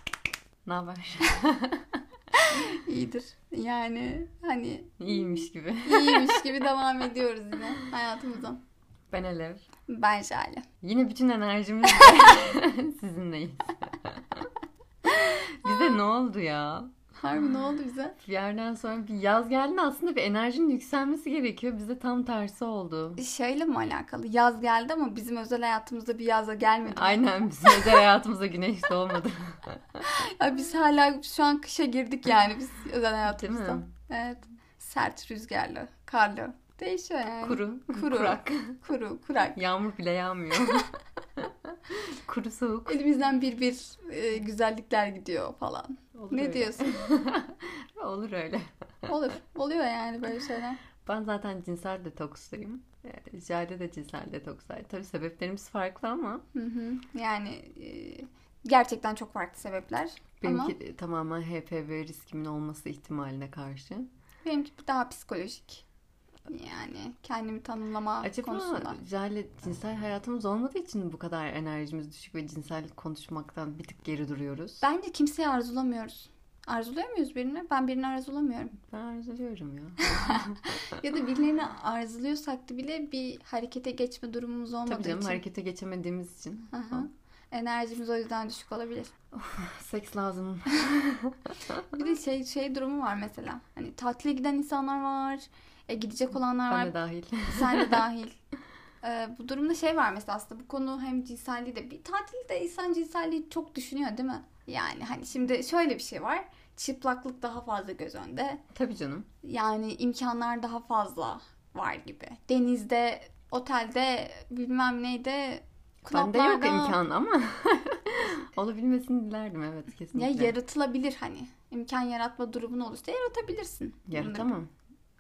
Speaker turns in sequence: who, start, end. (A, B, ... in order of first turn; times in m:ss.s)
0:00.6-0:02.0 A
0:02.3-0:05.1 B
0:05.0-0:06.4 A
0:05.8-0:08.6 B
0:09.1-0:09.6 A
0:09.9-0:10.7 B
0:10.8-0:14.5 A
0:15.0-0:17.0 A
0:17.2-0:18.2 B
0:18.2-0:23.2 A
0:23.2-0:28.0 B
0:26.9-0:30.1 A
0:30.0-0:39.6 B
0:33.2-0:33.9 A
0:37.4-0:38.8 A
0:39.6-0:43.0 A
0:42.9-0:47.0 B
0:46.1-0:49.1 A
0:49.1-0:50.8 B
0:51.0-0:56.4 A
0:56.5-1:00.7 B
1:00.4-1:04.1 A
1:04.4-1:05.8 B
1:06.5-1:09.0 B
1:08.2-1:14.8 A
1:14.8-1:18.8 B
1:18.8-1:20.6 A
1:20.0-1:25.4 B
1:24.9-1:27.1 A
1:26.7-1:29.1 B
1:29.3-1:32.0 A
1:31.9-1:36.9 B
1:36.7-1:38.0 A
1:37.5-1:38.4 B
1:39.0-1:48.6 B
1:48.7-1:49.3 A
1:49.4-1:57.0 B
1:56.1-2:00.6 A
2:00.1-2:04.5 B
2:04.1-2:04.7 A